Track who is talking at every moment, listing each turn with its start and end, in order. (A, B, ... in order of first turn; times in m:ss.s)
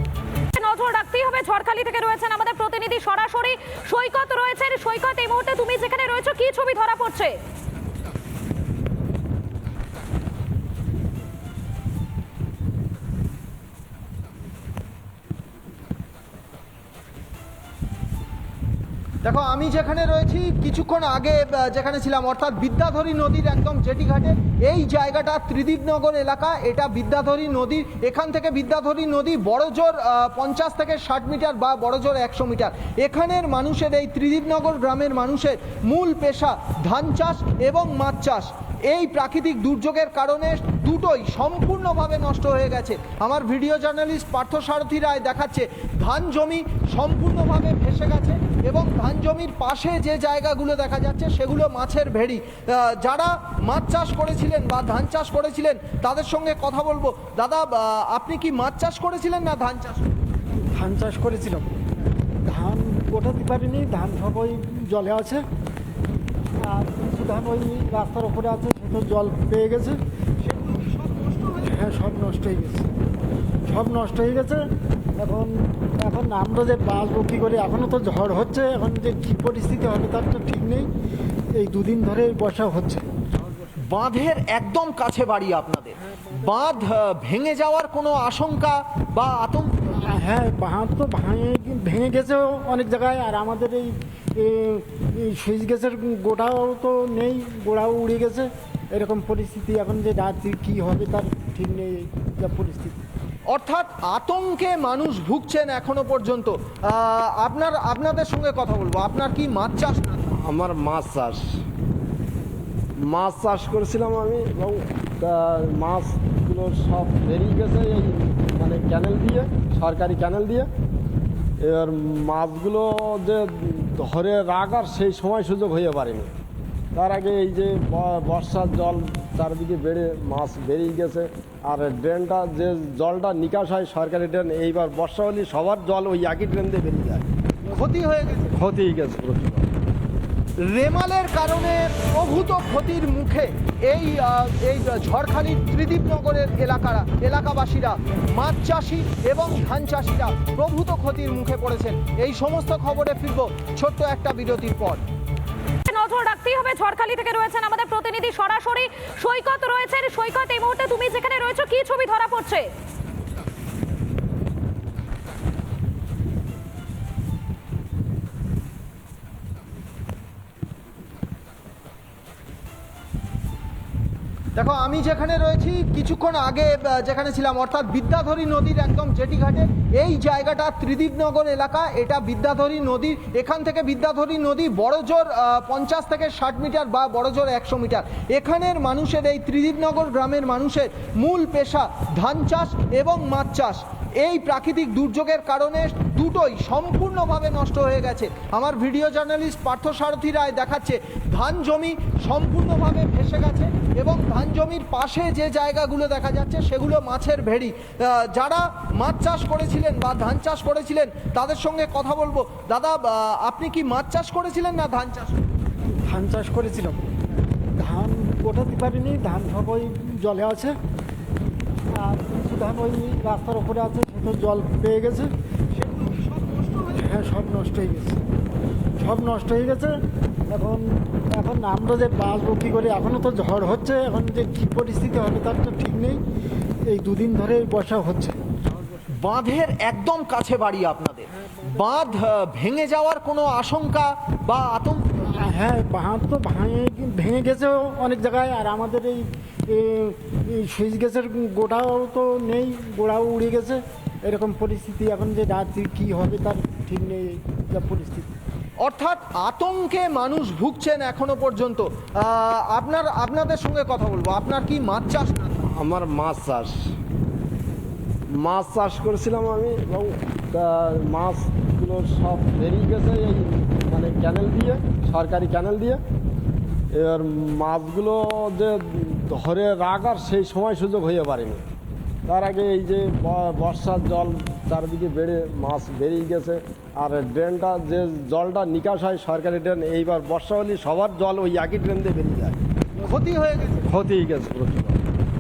0:00.6-0:07.4 A
0:19.2-1:00.1 B
1:00.6-1:01.8 C
1:02.4-1:05.4 C
1:06.6-1:10.0 C
1:10.6-1:12.9 C
1:13.7-1:20.9 C
1:21.6-1:23.1 C
1:23.7-1:30.0 B
1:30.0-1:43.0 C
1:43.5-1:50.3 B
1:50.3-1:51.6 D
1:53.0-2:00.7 D
2:01.6-2:06.3 D
2:07.0-2:17.3 D
2:17.7-2:18.6 B
2:18.5-2:19.7 D
2:20.6-2:35.0 B
2:35.9-2:42.7 A
2:54.6-3:35.4 B
3:35.9-3:37.1 C
3:37.8-3:40.8 C
3:41.9-3:45.3 C
3:45.9-3:48.2 C
3:49.0-3:56.2 C
3:56.9-3:58.4 C
3:59.0-4:05.2 B
4:05.2-4:18.3 C
4:18.8-4:25.6 B
4:25.6-4:26.9 D
4:28.3-4:36.0 D
4:36.9-4:41.6 D
4:42.3-4:52.6 D
4:53.0-4:53.9 B
4:53.9-4:55.0 D